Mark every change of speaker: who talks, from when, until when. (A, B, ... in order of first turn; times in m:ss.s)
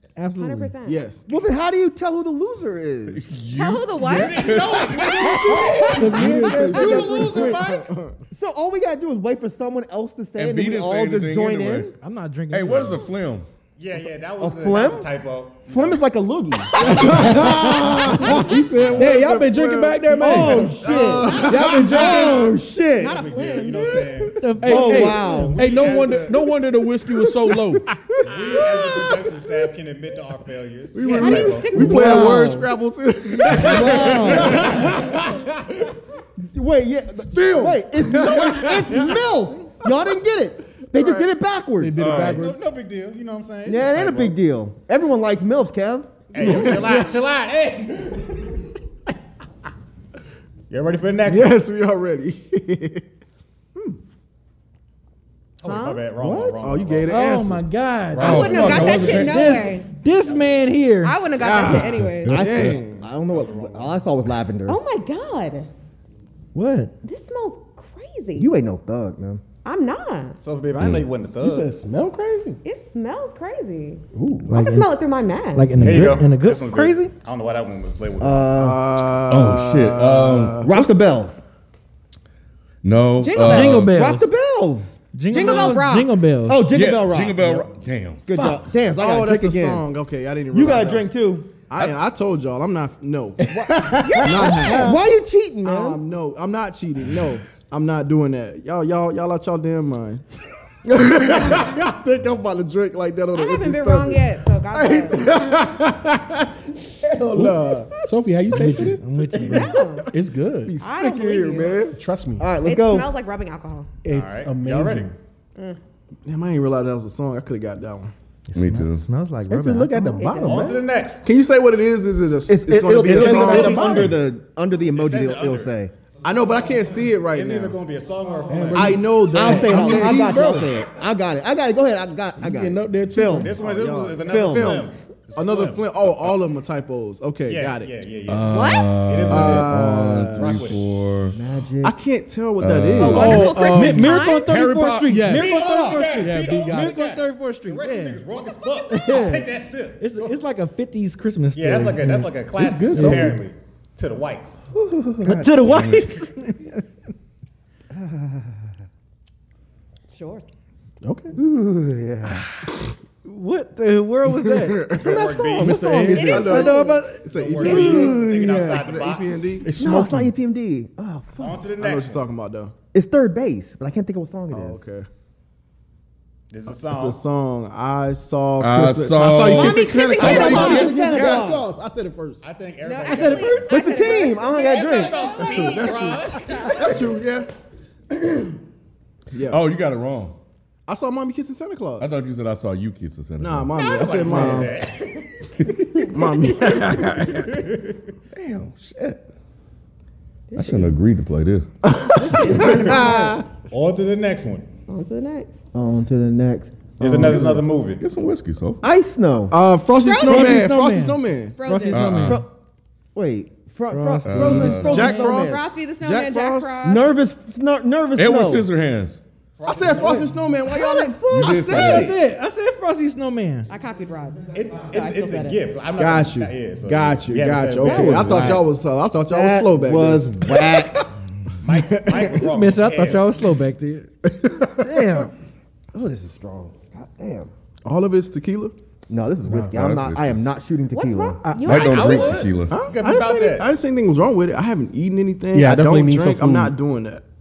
0:00.2-0:00.8 A
0:00.4-0:01.0 B
0:00.8-0:01.2 C
0:01.3-0:03.3 D
0:03.1-0:05.0 E
0:03.5-0:06.1 B
0:04.0-0:07.9 F
0:05.2-0:07.5 D
0:05.5-0:08.2 C
0:05.9-0:07.6 G
0:06.8-0:07.1 B
0:08.3-0:11.9 D
0:10.4-0:11.9 E
0:12.0-0:13.1 A
0:12.5-0:13.5 E
0:13.8-0:16.0 F
0:14.4-0:15.1 D
0:15.7-0:18.6 D
0:16.7-0:17.5 B
0:16.8-0:22.1 C
0:18.2-0:19.0 B
0:18.8-0:19.1 F
0:19.0-0:20.8 G
0:20.2-0:23.2 D
0:20.3-0:26.6 F
0:21.5-0:22.4 G
0:22.1-0:22.4 B
0:23.0-0:24.1 B
0:24.4-0:25.3 A
0:24.6-0:27.9 G
0:24.6-0:25.6 D
0:28.2-0:31.8 F
0:28.4-0:29.1 B
0:30.9-0:35.4 C
0:31.1-0:32.5 B
0:31.7-0:32.7 D
0:33.5-0:34.9 D
0:33.5-0:35.2 F
0:36.4-0:42.2 D
0:37.3-0:39.2 C
0:40.9-0:41.3 C
0:41.8-0:42.6 G
0:42.0-0:42.4 E
0:42.0-0:44.4 F
0:43.7-0:46.7 D
0:46.3-0:48.5 F
0:46.4-0:47.1 C
0:50.7-0:51.6 F
0:51.3-0:53.0 C
0:55.6-0:57.2 F
0:55.6-0:56.0 B
0:56.2-0:56.7 D
0:56.6-0:57.7 C
0:57.1-1:01.2 A
0:58.1-0:59.3 F
0:58.2-0:59.6 E
0:58.2-0:59.9 B
1:01.0-1:02.4 B
1:01.4-1:03.0 C
1:02.2-1:02.8 E
1:02.3-1:04.8 D
1:03.3-1:04.0 F
1:04.7-1:05.7 B
1:06.5-1:06.9 A
1:07.0-1:08.5 B
1:08.4-1:09.4 D
1:09.6-1:10.4 B
1:10.4-1:11.7 F
1:11.4-1:12.6 G
1:12.6-1:15.7 B
1:14.1-1:14.5 G
1:14.5-1:14.9 A
1:15.6-1:17.1 A
1:15.8-1:18.6 F
1:18.2-1:18.8 D
1:18.5-1:20.7 C
1:19.3-1:20.6 E
1:20.6-1:21.4 D
1:22.8-1:24.0 E
1:23.2-1:23.9 B
1:23.4-1:24.3 A
1:23.8-1:25.0 D
1:25.1-1:26.7 A
1:25.3-1:26.1 B
1:26.5-1:27.7 D
1:26.7-1:28.4 E
1:28.3-1:29.8 D
1:29.0-1:31.1 C
1:30.5-1:31.5 D
1:31.7-1:35.0 C
1:34.0-1:35.0 B
1:34.4-1:36.0 D
1:35.6-1:40.2 C
1:40.8-1:48.0 C
1:43.3-1:45.2 B
1:47.4-1:49.0 G
1:48.6-1:49.8 A
1:48.6-1:50.1 C
1:49.4-1:50.1 B
1:50.1-1:50.8 G
1:50.6-1:52.0 C
1:50.8-1:51.9 B
1:52.0-1:52.5 G
1:52.4-1:53.1 D
1:52.6-1:53.9 B
1:54.0-1:55.1 G
1:54.1-1:55.1 F
1:56.2-1:58.1 C
1:58.5-2:00.3 A
1:58.5-1:59.1 E
1:59.5-2:00.8 G
2:00.2-2:00.7 B
2:00.4-2:01.3 F
2:01.2-2:04.1 C
2:02.5-2:05.9 D
2:03.1-2:04.2 G
2:04.9-2:05.7 F
2:06.2-2:07.8 C
2:07.3-2:09.1 F
2:08.5-2:10.7 G
2:08.8-2:10.5 C
2:09.3-2:13.5 D
2:12.4-2:13.6 G
2:13.4-2:15.9 F
2:13.6-2:17.9 C
2:14.3-2:14.9 D
2:17.5-2:20.8 F
2:18.3-2:21.4 E
2:18.5-2:19.0 B
2:19.3-2:20.6 C
2:21.3-2:22.0 D
2:21.8-2:23.5 C
2:22.6-2:23.5 E
2:23.0-2:24.5 B
2:23.0-2:27.0 G
2:23.5-2:28.2 A
2:25.3-2:30.4 F
2:28.9-2:29.4 A
2:30.0-2:32.2 A
2:31.5-2:34.6 F
2:32.0-2:33.4 G
2:32.9-2:33.3 A
2:34.7-2:35.9 D
2:35.2-2:36.8 A
2:35.7-2:36.1 E
2:37.9-2:38.7 D
2:40.1-2:40.4 B
2:41.0-2:41.4 G
2:41.4-2:42.4 D
2:43.2-2:44.9 A
2:44.3-2:45.2 C
2:44.9-2:45.9 F
2:45.0-2:46.7 D
2:45.6-2:46.5 G
2:46.1-2:47.0 B
2:46.2-2:49.7 C
2:46.6-2:47.0 A
2:47.3-2:49.6 F
2:47.6-2:48.9 D
2:47.6-2:48.0 B
2:49.6-2:50.3 G
2:49.8-2:51.7 D
2:51.4-2:52.2 F
2:51.8-2:52.7 C
2:52.9-2:54.8 D
2:54.5-2:55.1 C
2:56.5-2:57.2 F
2:56.8-3:02.4 C
2:58.6-3:00.5 E
2:59.4-3:01.1 B
3:00.2-3:01.7 D
3:02.4-3:07.1 F
3:02.8-3:05.9 B
3:03.0-3:03.6 A
3:03.7-3:05.2 D
3:05.4-3:07.5 C
3:06.5-3:06.8 B
3:09.3-3:09.6 C
3:09.5-3:10.4 E
3:10.9-3:12.1 C
3:12.0-3:13.8 E
3:13.4-3:14.7 C
3:13.8-3:15.5 F
3:14.3-3:14.8 D
3:16.1-3:17.5 C
3:16.5-3:18.0 F
3:18.4-3:19.2 E
3:20.5-3:20.9 B
3:20.5-3:21.7 E
3:21.8-3:23.5 C
3:22.1-3:23.4 B
3:22.6-3:23.0 F
3:23.7-3:24.7 F
3:24.9-3:25.6 B
3:25.7-3:27.6 D
3:27.0-3:28.0 F
3:28.0-3:28.8 E
3:28.8-3:29.6 D
3:29.5-3:31.6 C
3:30.0-3:30.7 B
3:30.2-3:32.4 A
3:31.6-3:32.2 B
3:31.9-3:32.4 E
3:33.1-3:35.6 D
3:33.9-3:35.5 A
3:34.2-3:35.0 E
3:34.8-3:36.9 C
3:34.9-3:37.2 B
3:36.8-3:38.7 D
3:38.2-3:39.2 E
3:39.6-3:40.4 F
3:39.6-3:42.2 C
3:40.7-3:42.1 D
3:41.3-3:42.1 E
3:41.6-3:43.7 A
3:43.7-3:45.6 B
3:44.5-3:48.6 F
3:46.0-3:51.0 C
3:47.8-3:48.7 D
3:49.3-3:51.0 D
3:51.6-3:53.4 F
3:51.7-3:52.4 C
3:52.3-3:54.1 A
3:54.3-3:55.2 C
3:54.8-3:55.3 A
3:55.9-3:57.5 D
3:57.8-3:58.8 C
3:59.1-4:01.4 D
3:59.5-3:59.7 G
3:59.7-4:00.4 E
4:00.9-4:02.5 B
4:01.4-4:01.8 G
4:01.6-4:02.8 E
4:01.7-4:03.7 F
4:02.7-4:07.2 C
4:05.5-4:06.8 G